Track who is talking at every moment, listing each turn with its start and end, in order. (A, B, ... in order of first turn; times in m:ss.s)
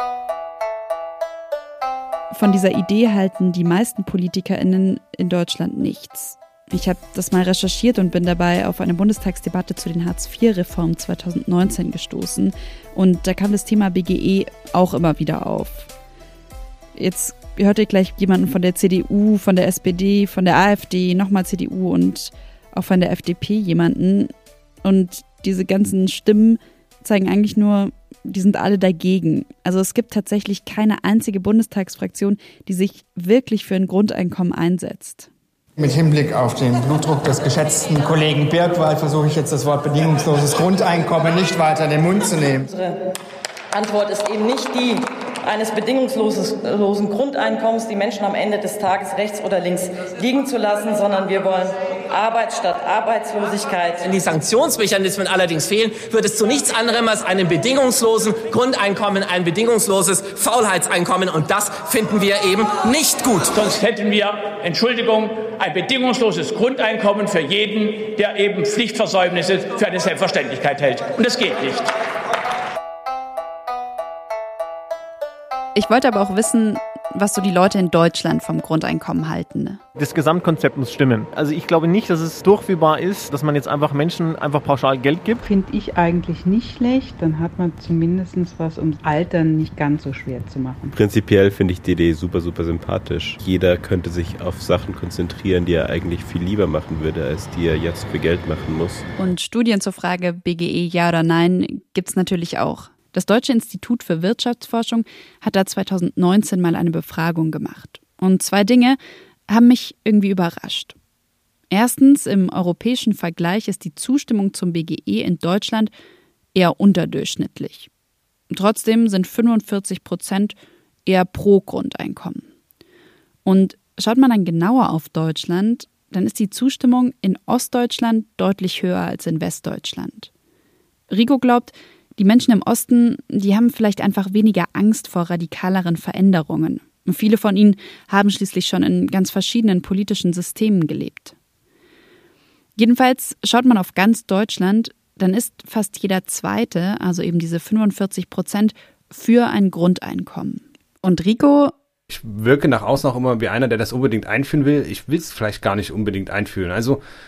0:02.3-0:15.9 A
0:17.0-0:24.3 A
0:24.8-0:35.3 A
0:35.8-0:42.7 B
0:42.7-0:43.0 C
0:43.7-0:54.0 C
0:54.0-1:03.6 D
1:03.6-1:11.9 E
1:15.8-1:19.8 A
1:20.0-1:25.4 F
1:25.4-1:31.0 G
1:31.0-1:39.1 H
1:39.2-1:51.0 A
1:51.7-1:55.9 A
1:56.5-1:57.9 A
1:58.5-2:02.5 A
2:03.4-2:10.3 A
2:11.1-2:21.4 A
2:22.8-2:31.7 A
2:32.1-2:37.0 I